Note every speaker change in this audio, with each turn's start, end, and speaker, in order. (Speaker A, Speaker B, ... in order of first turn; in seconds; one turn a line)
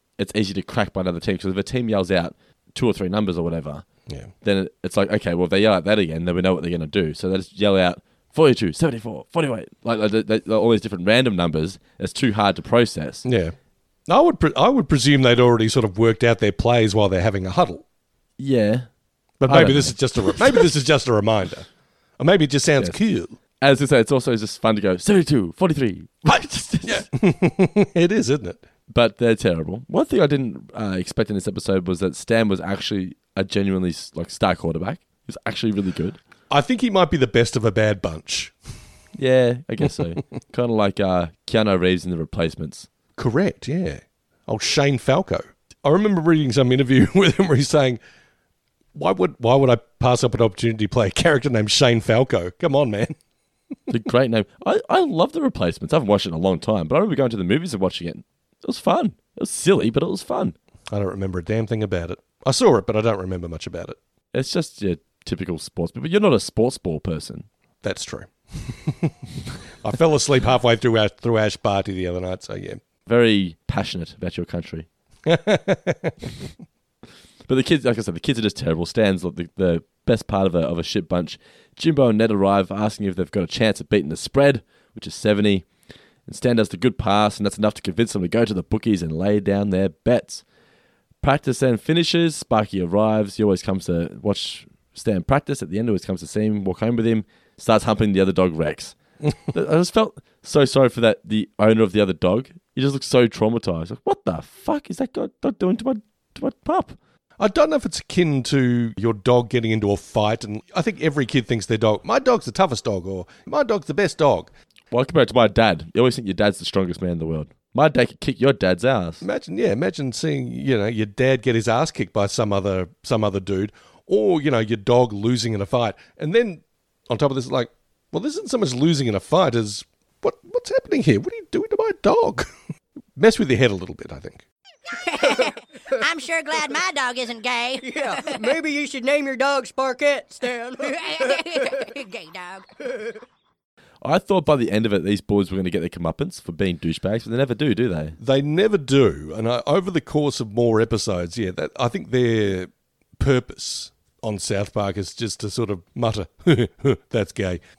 Speaker A: 0.2-3.9
Speaker A: 4.4-13.3
Speaker B: 13.2-13.6
Speaker B: 14.1-17.8
Speaker A: 18.4-18.9
Speaker B: 19.4-21.7
Speaker A: 19.5-20.6
Speaker B: 22.2-23.4
Speaker A: 23.6-27.1
Speaker B: 26.8-28.6
Speaker A: 28.9-36.2
Speaker B: 36.5-38.6
Speaker A: 39.2-42.9
Speaker B: 43.2-48.0
Speaker B: 48.9-53.2
Speaker A: 53.9-60.5
Speaker B: 60.9-64.0
Speaker A: 64.3-67.5
Speaker B: 67.8-69.2
Speaker B: 69.8-72.8
Speaker A: 73.1-74.9
Speaker B: 75.3-76.2
Speaker A: 77.5-85.7
Speaker A: 86.3-90.4
Speaker A: 91.2-99.0
Speaker A: 99.5-107.0
Speaker B: 107.4-114.5
Speaker A: 114.9-119.2
Speaker B: 119.2-132.5
Speaker B: 133.2-134.4
Speaker C: 134.9-138.6
Speaker D: 135.2-135.5
Speaker D: 137.8-141.9
Speaker C: 140.8-142.7
Speaker D: 142.8-143.1
Speaker A: 144.0-148.2
Speaker B: 148.2-157.6